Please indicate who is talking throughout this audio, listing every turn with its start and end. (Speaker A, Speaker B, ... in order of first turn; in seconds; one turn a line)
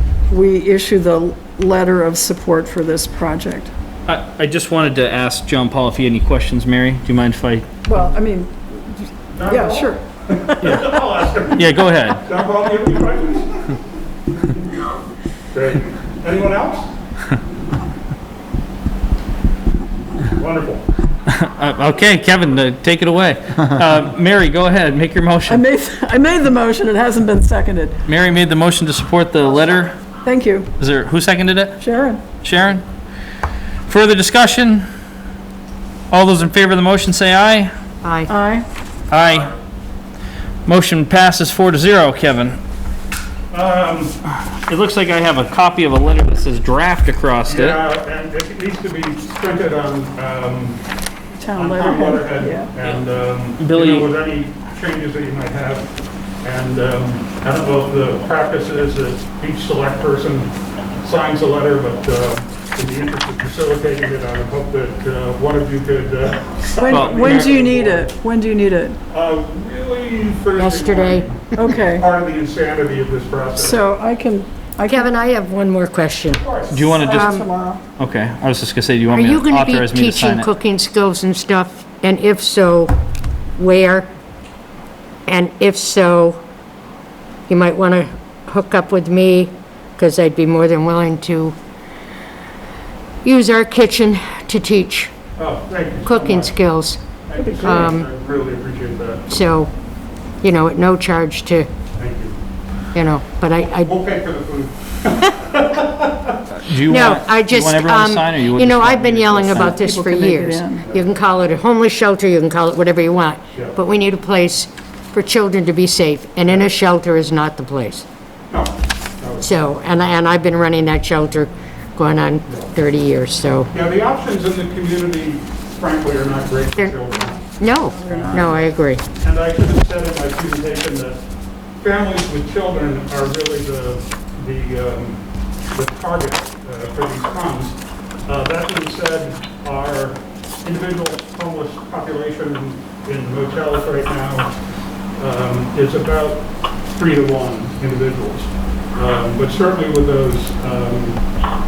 Speaker A: 0.3-3.7
Speaker B: 4.0-7.7
Speaker A: 7.8-10.8
Speaker C: 9.3-13.8
Speaker B: 10.6-11.0
Speaker B: 11.5-12.2
Speaker C: 14.3-14.6
Speaker C: 15.5-16.9
Speaker C: 20.2-20.9
Speaker B: 21.3-25.6
Speaker A: 25.5-28.0
Speaker B: 28.1-30.0
Speaker A: 30.2-30.7
Speaker B: 30.8-31.8
Speaker A: 31.8-32.2
Speaker B: 32.4-32.8
Speaker B: 33.9-34.9
Speaker B: 36.1-37.7
Speaker D: 38.0-38.3
Speaker A: 38.3-38.7
Speaker B: 39.1-39.5
Speaker B: 40.7-42.6
Speaker C: 43.5-44.2
Speaker B: 44.5-47.8
Speaker C: 47.5-50.8
Speaker A: 51.4-52.7
Speaker C: 51.5-68.1
Speaker B: 53.6-54.1
Speaker A: 66.8-69.0
Speaker B: 66.9-67.5
Speaker C: 69.1-73.8
Speaker D: 70.6-71.3
Speaker A: 71.5-72.1
Speaker A: 73.5-75.1
Speaker D: 74.9-76.5
Speaker C: 76.4-76.8
Speaker B: 76.7-77.2
Speaker A: 76.9-77.8
Speaker D: 77.0-77.5
Speaker B: 78.0-80.5
Speaker D: 79.1-83.0
Speaker D: 83.5-84.1
Speaker D: 85.3-86.4
Speaker D: 87.5-91.5
Speaker D: 93.2-95.1
Speaker C: 95.4-96.5
Speaker D: 96.0-98.1
Speaker C: 97.3-99.4
Speaker D: 99.3-99.7
Speaker D: 100.4-101.7
Speaker C: 101.9-102.4
Speaker D: 102.9-103.9
Speaker C: 103.8-106.5
Speaker B: 106.5-109.7
Speaker D: 106.9-118.0
Speaker A: 109.5-110.9
Speaker C: 110.9-111.2
Speaker C: 113.5-113.8
Speaker C: 118.5-119.7
Speaker D: 119.4-123.7
Speaker C: 122.5-122.7
Speaker C: 123.7-131.2
Speaker D: 127.6-129.0
Speaker A: 128.0-128.5
Speaker C: 131.8-144.5
Speaker C: 145.2-151.3